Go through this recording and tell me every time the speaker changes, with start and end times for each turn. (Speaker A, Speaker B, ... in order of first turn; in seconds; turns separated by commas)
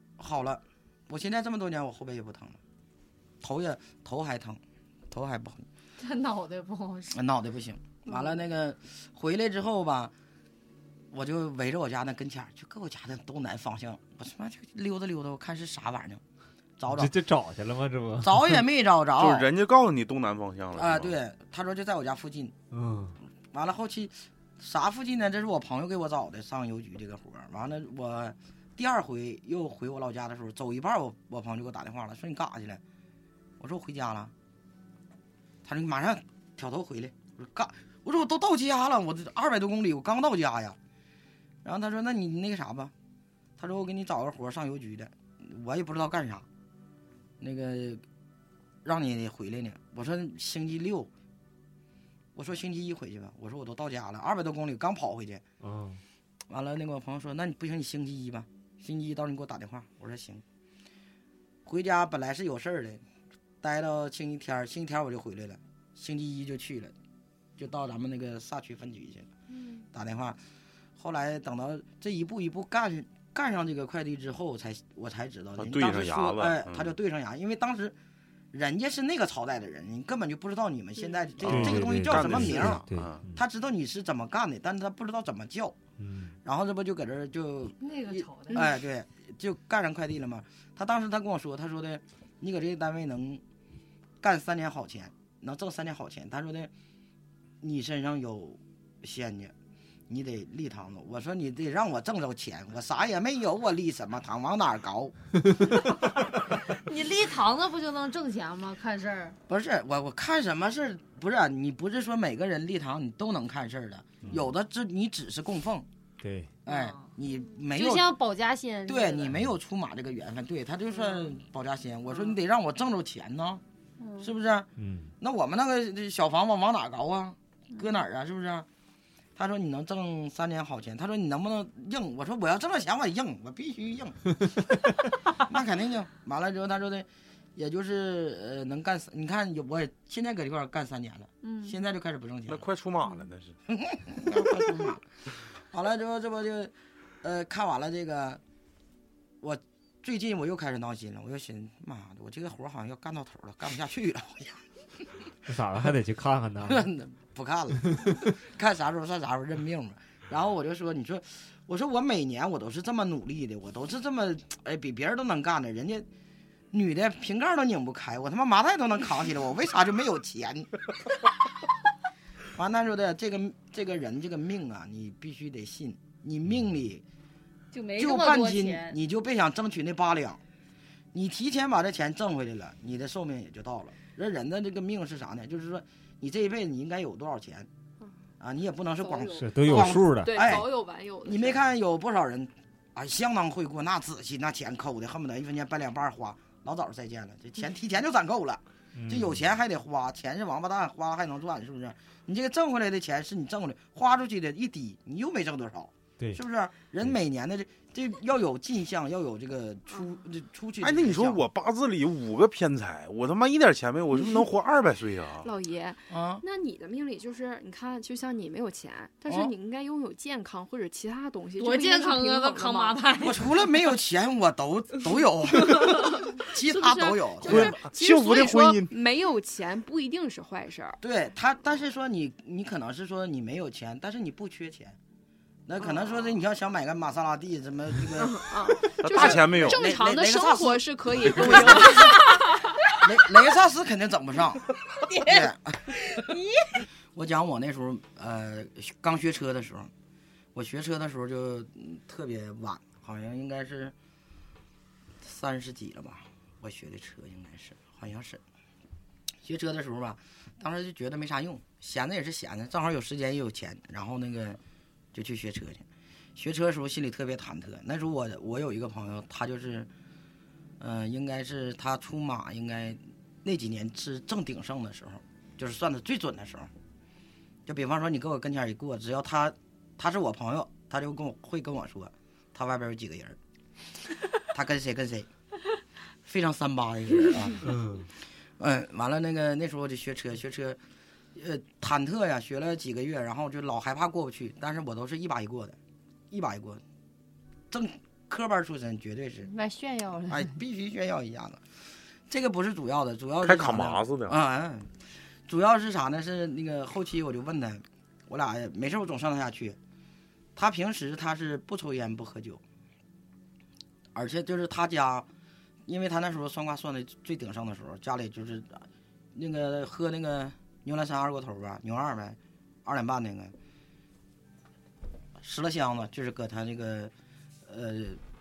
Speaker A: 0.2-2.6, Speaker A: 3.4-5.7, Speaker B: 6.0-7.2, Speaker A: 7.1-10.1, Speaker A: 11.1-16.2, Speaker A: 16.8-17.1, Speaker C: 16.9-18.6, Speaker A: 18.2-19.5, Speaker D: 19.2-21.1, Speaker A: 20.8-22.5, Speaker C: 22.7-23.2, Speaker A: 23.5-32.8, Speaker A: 33.6-34.3, Speaker A: 35.6-40.8, Speaker A: 41.6-42.9, Speaker A: 43.6-46.5, Speaker A: 47.4-48.0, Speaker A: 48.8-51.1, Speaker A: 52.4-55.4, Speaker C: 55.6-56.0, Speaker A: 56.5-60.4, Speaker A: 61.6-63.0, Speaker A: 63.6-66.9, Speaker A: 67.6-69.3, Speaker E: 69.5-69.8, Speaker A: 69.9-70.4, Speaker A: 71.0-78.0, Speaker D: 75.6-77.0, Speaker A: 78.5-85.8, Speaker D: 81.4-83.2, Speaker C: 81.5-83.4, Speaker C: 86.0-86.4, Speaker A: 86.4-93.4, Speaker B: 87.8-88.7, Speaker A: 94.2-96.7, Speaker A: 97.6-99.5, Speaker A: 100.1-105.1, Speaker B: 106.5-109.4, Speaker A: 109.5-115.9, Speaker C: 116.2-116.5, Speaker A: 116.7-118.2, Speaker B: 116.7-119.3, Speaker A: 118.9-123.6, Speaker B: 121.0-121.3, Speaker B: 124.0-124.3, Speaker A: 124.2-128.7, Speaker C: 124.8-125.1, Speaker A: 129.4-134.7, Speaker A: 135.4-142.7, Speaker B: 141.4-141.8, Speaker D: 142.5-143.6, Speaker A: 143.7-145.0, Speaker A: 145.7-148.4, Speaker A: 149.4-155.1, Speaker C: 155.5-156.9, Speaker A: 156.6-166.1, Speaker C: 157.9-158.3, Speaker A: 166.7-170.7, Speaker A: 172.5-177.1, Speaker B: 177.7-179.0, Speaker A: 178.0-180.4, Speaker A: 181.1-187.7, Speaker A: 188.4-190.7, Speaker E: 189.0-191.6, Speaker C: 189.4-190.6, Speaker A: 191.2-211.4, Speaker C: 198.9-199.4, Speaker D: 210.8-215.5, Speaker E: 215.4-223.1, Speaker A: 216.1-216.4, Speaker A: 219.3-219.5, Speaker B: 221.6-223.4, Speaker A: 223.2-227.8, Speaker E: 225.8-231.0, Speaker D: 227.4-228.9, Speaker A: 231.0-235.0, Speaker A: 235.7-238.5, Speaker E: 238.2-242.6, Speaker D: 239.0-239.9, Speaker A: 239.1-242.2, Speaker A: 243.0-244.7, Speaker B: 245.1-245.5, Speaker A: 245.2-246.0, Speaker B: 246.1-246.7, Speaker A: 247.1-249.9, Speaker A: 250.5-253.9, Speaker A: 255.2-258.4, Speaker A: 259.4-264.6, Speaker A: 265.1-265.9, Speaker A: 266.4-269.9, Speaker A: 270.8-276.7, Speaker A: 277.7-283.4, Speaker A: 284.5-285.3, Speaker A: 286.2-287.7, Speaker C: 287.6-288.1, Speaker A: 288.6-290.8, Speaker A: 291.4-295.8, Speaker A: 296.3-296.8, Speaker A: 297.7-299.5, Speaker B: 299.4-300.6, Speaker A: 300.3-301.6, Speaker A: 302.3-304.9, Speaker D: 303.4-304.4, Speaker A: 305.5-309.8, Speaker A: 310.6-312.6, Speaker A: 314.1-315.3, Speaker A: 315.9-323.6, Speaker A: 325.4-327.1, Speaker A: 327.6-328.2